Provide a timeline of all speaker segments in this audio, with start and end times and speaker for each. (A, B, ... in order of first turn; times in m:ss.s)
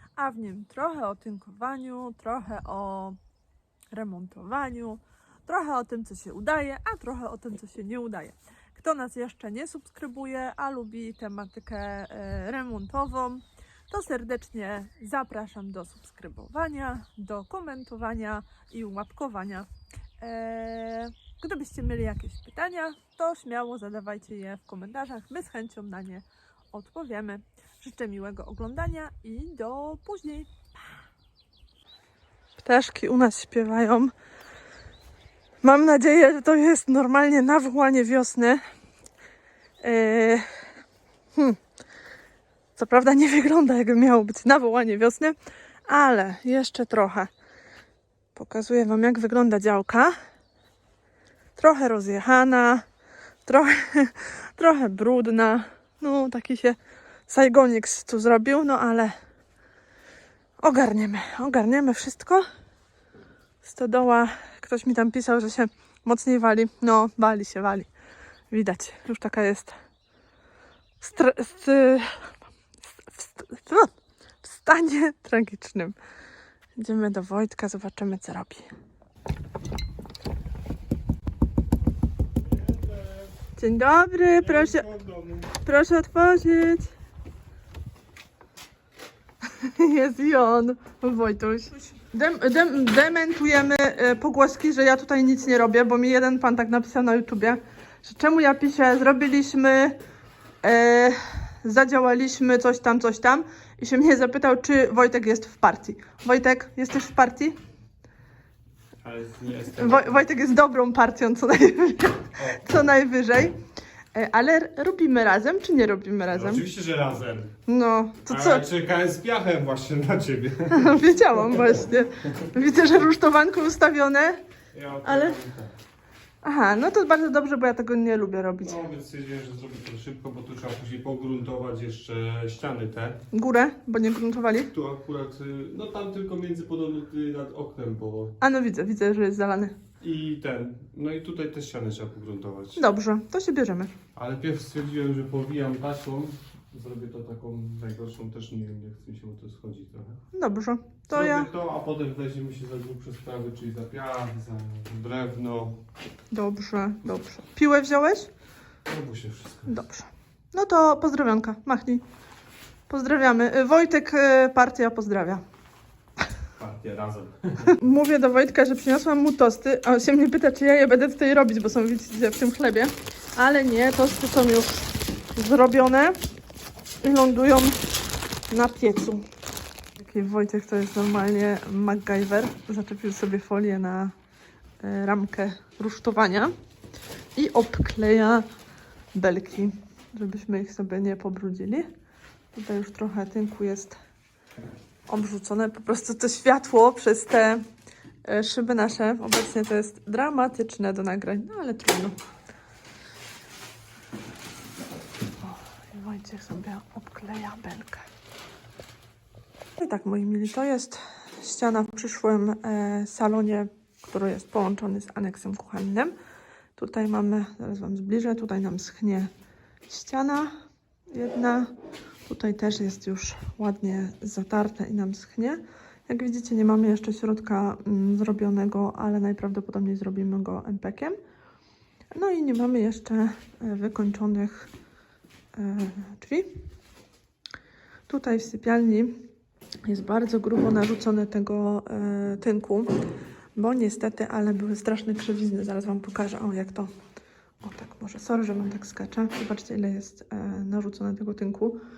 0:00.2-0:03.2 A
0:03.9-0:19.7 A
0:20.2-0:30.8 A
0:32.6-0:34.1 A
0:35.6-0:38.6 A
0:39.8-0:40.5 A
0:42.8-0:45.4 A
0:45.9-0:47.3 A
0:48.4-0:50.2 A
0:51.6-0:52.8 A
0:53.5-0:59.2 A
1:00.6-1:02.5 A
1:03.6-1:07.9 A
1:08.5-1:09.8 A
1:11.0-1:12.3 A
1:13.0-1:13.9 A
1:14.4-1:16.0 A
1:16.8-1:18.7 A
1:22.4-1:23.4 B
1:23.6-1:24.9 A
1:24.4-1:25.6 B
1:25.6-1:26.9 A
1:29.4-1:40.0 A
1:40.6-1:47.6 A
1:49.0-1:50.3 B
1:49.8-1:53.6 A
1:52.4-1:52.8 B
1:54.1-1:56.6 A
1:56.3-1:57.5 B
1:57.7-1:58.7 A
1:58.3-2:01.4 B
2:00.7-2:04.4 A
2:04.7-2:05.7 B
2:05.0-2:05.4 A
2:06.4-2:08.8 A
2:08.6-2:13.2 B
2:13.3-2:14.7 A
2:14.7-2:18.4 B
2:18.4-2:19.8 A
2:20.0-2:22.8 B
2:22.8-2:23.9 A
2:24.2-2:30.2 B
2:30.3-2:31.5 A
2:31.1-2:35.8 B
2:36.3-2:38.3 A
2:38.8-2:39.8 B
2:39.7-2:42.0 A
2:42.9-2:45.4 A
2:46.6-2:47.8 B
2:47.8-2:56.2 A
2:57.0-2:57.8 A
2:58.5-2:59.2 A
3:00.0-3:04.1 A
3:04.8-3:06.5 A
3:07.4-3:08.5 A
3:09.1-3:11.9 A
3:12.5-3:14.0 A
3:15.1-3:17.6 A
3:18.2-3:22.2 A
3:25.4-3:28.1 A
3:29.8-3:36.1 A
3:36.8-3:39.3 A
3:39.9-3:40.5 A
3:41.1-3:41.7 A
3:42.3-3:51.2 A
3:52.1-3:54.7 A
3:55.5-3:56.6 A
3:58.1-3:59.3 A
3:59.8-4:02.9 A
4:03.6-4:06.9 A
4:07.6-4:11.8 A